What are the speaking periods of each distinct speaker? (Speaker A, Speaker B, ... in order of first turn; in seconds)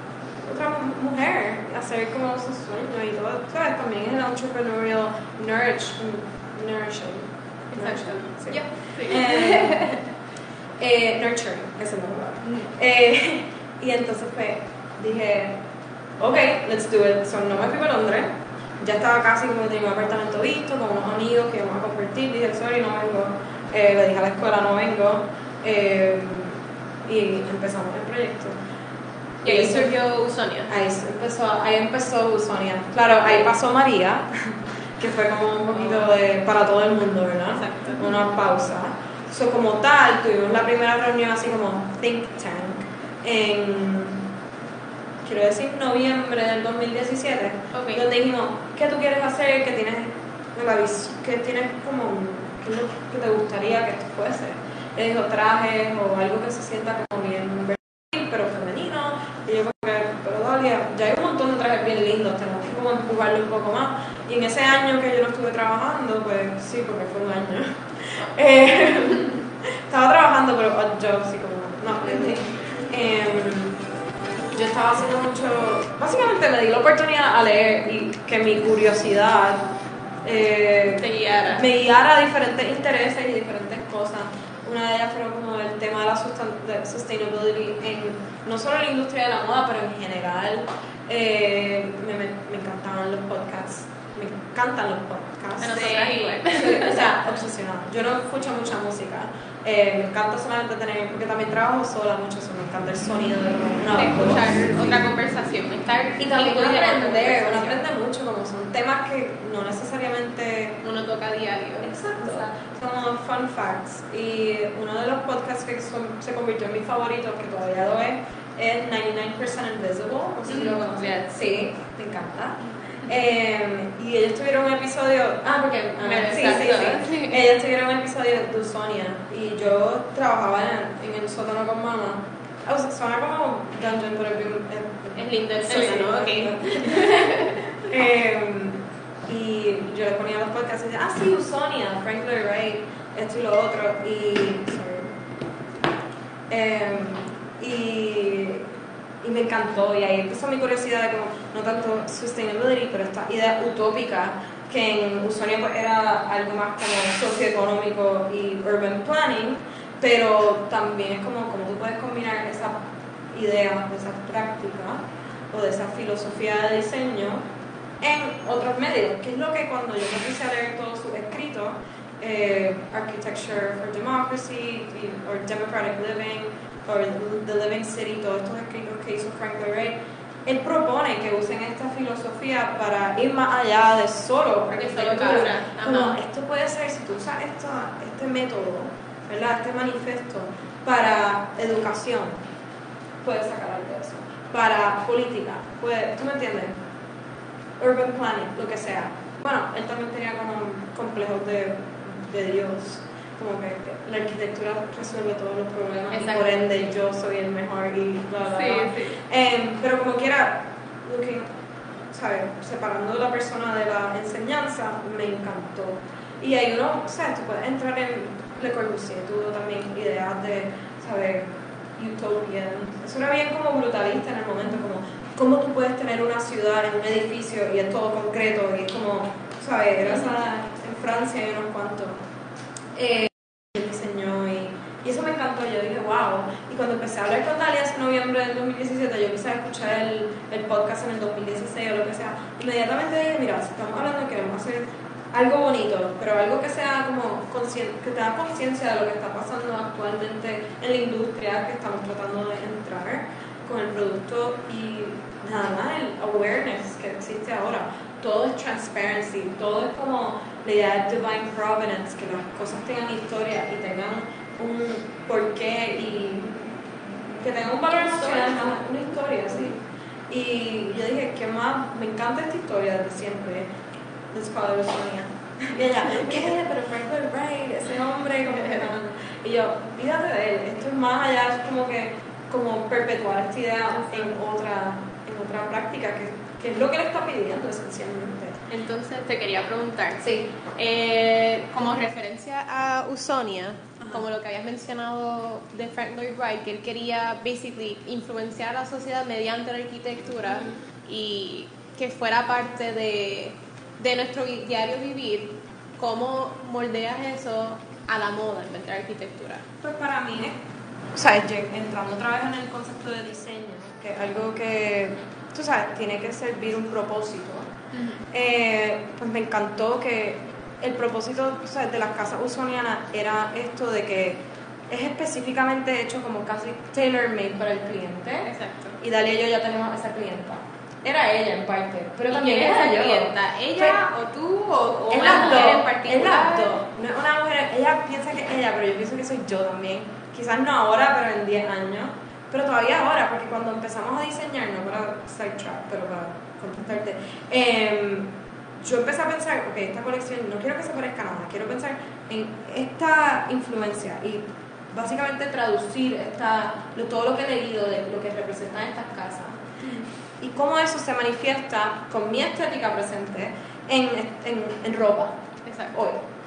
Speaker A: 0.4-9.9, 10.8-15.6, 16.2-28.6, 29.4-29.9, 30.7-44.3, 45.2-73.8, 74.5-79.7, 80.2-105.0, 106.2-110.8, 111.8-145.2, 146.5-148.7, 149.2-167.4, 168.0-192.4, 193.2-196.8, 197.8-211.5, 212.1-232.2, 232.9-266.7, 267.4-269.8, 270.3-273.7, 274.3-288.6, 309.8-310.6, 311.1-317.7, 318.3-334.0, 335.1-359.6, 360.4-365.4, 365.9-366.2
Speaker B: 7.7-10.0, 29.4-30.7, 33.2-33.5, 35.8-36.1, 37.5-38.1, 47.7-48.0, 81.0-81.7, 95.6-97.1, 103.9-107.8, 110.8-112.5, 120.5-121.3, 126.0-127.5, 135.2-137.6, 184.7-186.2, 206.1-206.7, 208.5-209.2, 268.0-268.8, 283.9-284.3, 288.7-309.6, 317.9-318.2, 328.4-329.0, 332.3-336.8, 365.7-366.1